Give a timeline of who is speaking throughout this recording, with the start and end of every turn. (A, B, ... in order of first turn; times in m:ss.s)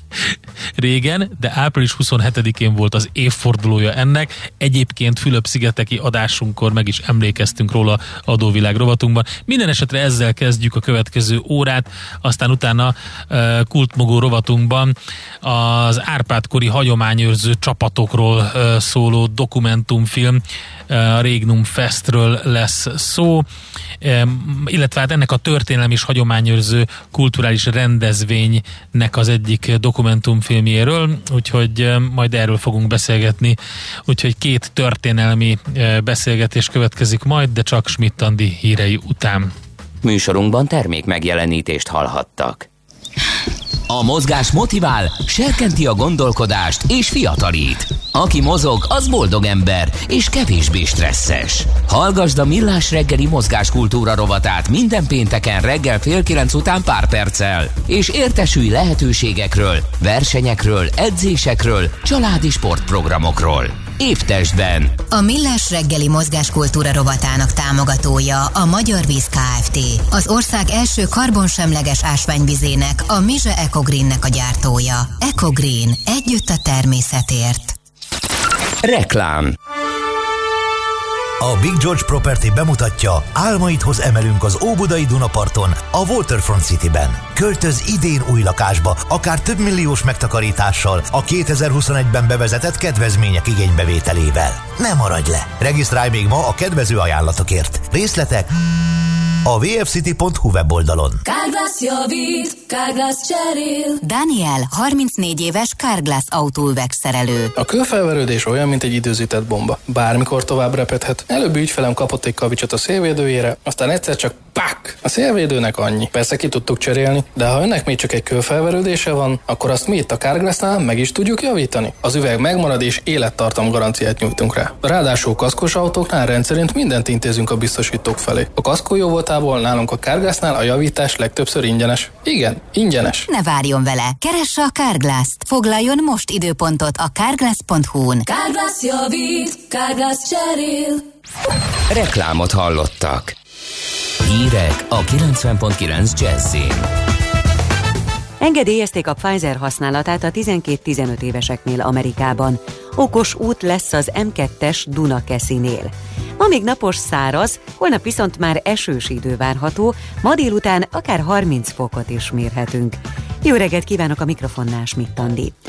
0:00.8-0:23.5 A
0:24.0-0:33.6 A
0:34.1-0:39.5 A
0:40.0-0:42.7 B
0:43.9-1:05.0 B
1:05.1-1:17.7 C
1:18.8-1:19.6 B
1:21.4-1:38.5 D
1:39.4-1:41.2 D
1:41.3-1:44.0 E
1:44.0-1:47.5 C
1:47.6-2:13.3 F
2:13.3-2:18.2 C
2:18.2-2:21.0 E
2:21.9-2:23.4 B
2:24.2-2:26.9 B
2:28.4-2:45.6 G